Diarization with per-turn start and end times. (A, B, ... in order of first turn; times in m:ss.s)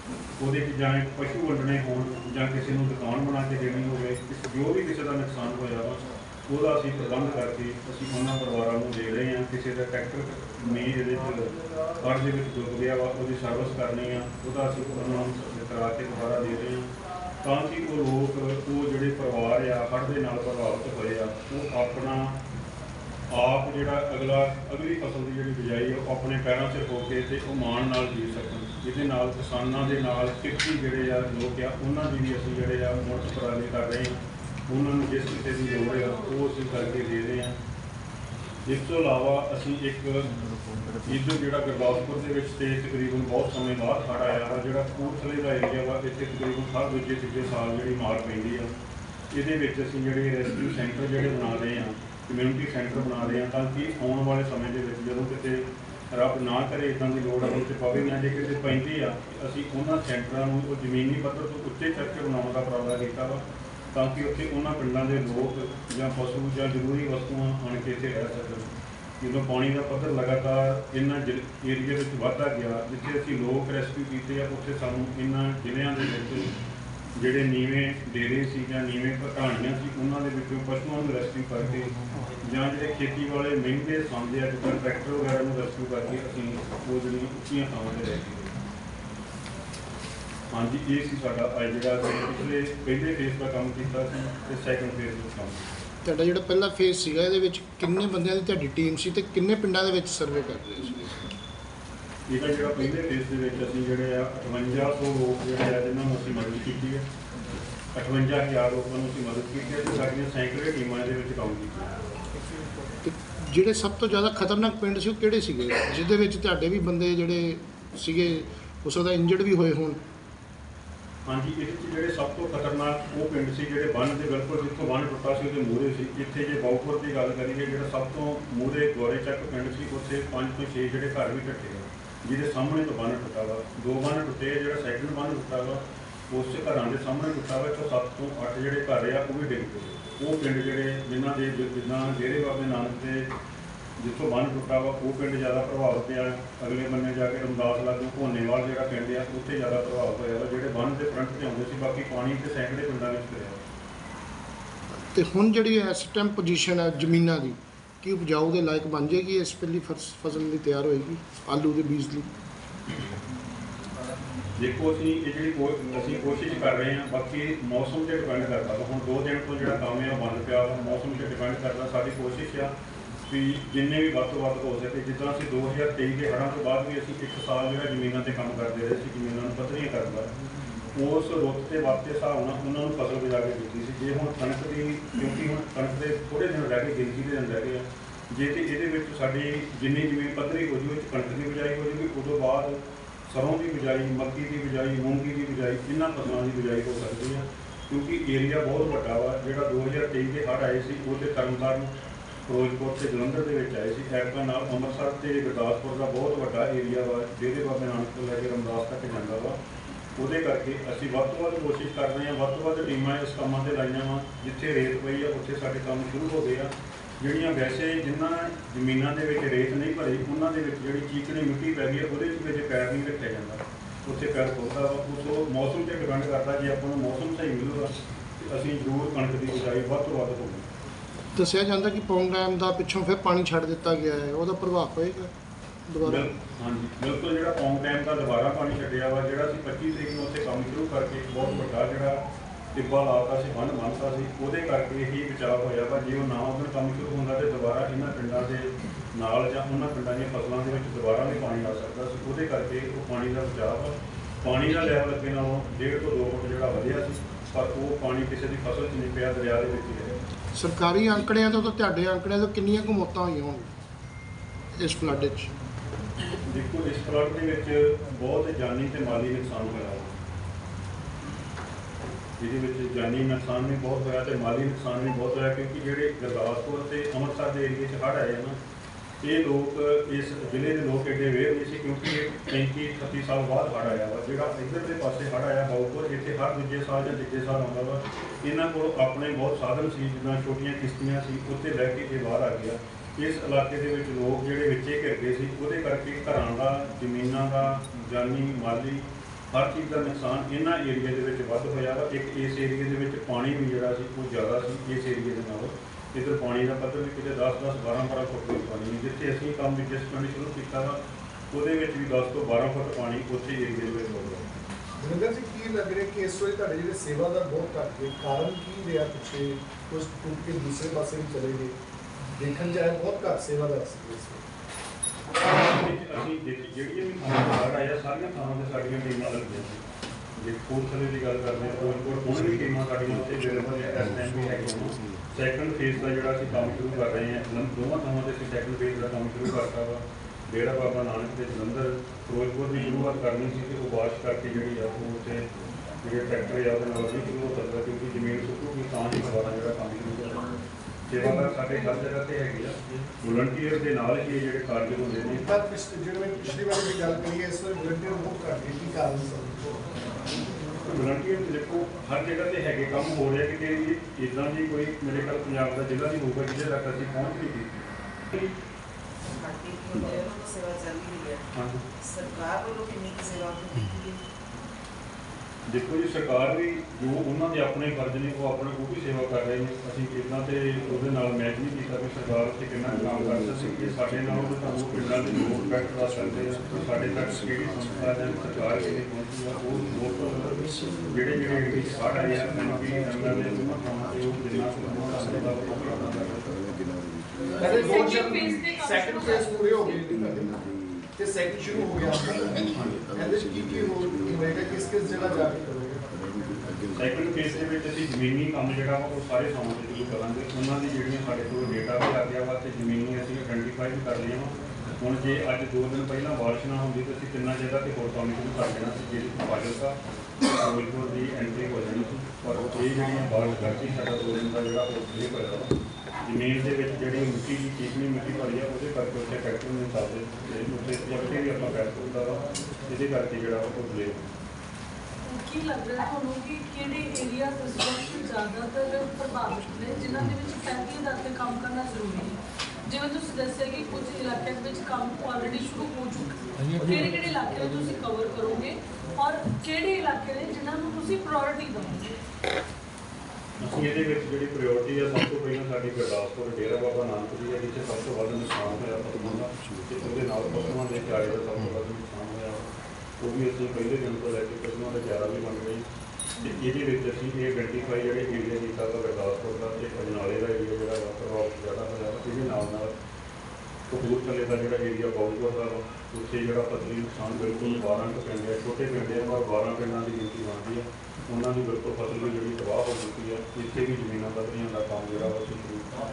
0:00.4-0:22.4 A
0:23.3-0:37.6 A
0:38.6-0:40.3 A
0:41.0-0:48.7 A
0:49.3-1:03.4 A
1:03.9-1:08.7 A
1:09.2-1:16.5 A
1:17.2-1:28.5 A
1:30.5-1:35.7 A
1:36.0-1:41.3 B
1:42.3-1:47.0 A
1:47.9-1:51.9 A
1:53.0-2:00.0 B
2:01.2-2:23.3 A
2:24.0-2:33.6 A
2:34.9-2:42.3 B
2:44.6-2:52.7 A
2:53.3-3:00.3 A
3:00.9-3:21.9 A
3:22.5-3:29.6 A
3:30.2-3:50.7 A
3:51.3-3:55.3 B
3:55.9-3:56.3 B
3:56.0-4:02.2 A
4:02.7-4:20.2 A
4:20.5-4:23.7 B
4:24.8-4:25.5 B
4:26.5-4:30.2 A
4:32.4-4:38.6 A
4:39.2-5:11.0 A
5:11.5-5:14.5 A
5:15.0-5:21.7 C
5:22.3-5:24.4 C
5:25.4-5:29.8 A
5:30.4-5:45.4 A
5:46.0-5:50.5 A
5:51.1-5:55.5 A
5:55.4-5:59.6 C
6:00.8-6:08.5 A
6:09.6-6:11.3 D
6:11.5-6:11.8 A
6:12.2-6:14.1 D
6:15.7-6:36.5 A
6:37.6-6:40.0 E
6:37.6-6:40.5 C
6:41.2-6:46.0 C
6:42.7-6:43.0 A
6:46.9-7:00.0 A
7:00.6-7:05.7 A
7:06.2-7:14.3 A
7:15.2-7:32.2 E
7:33.6-7:45.8 A
7:46.4-7:52.9 A
7:53.9-8:05.9 A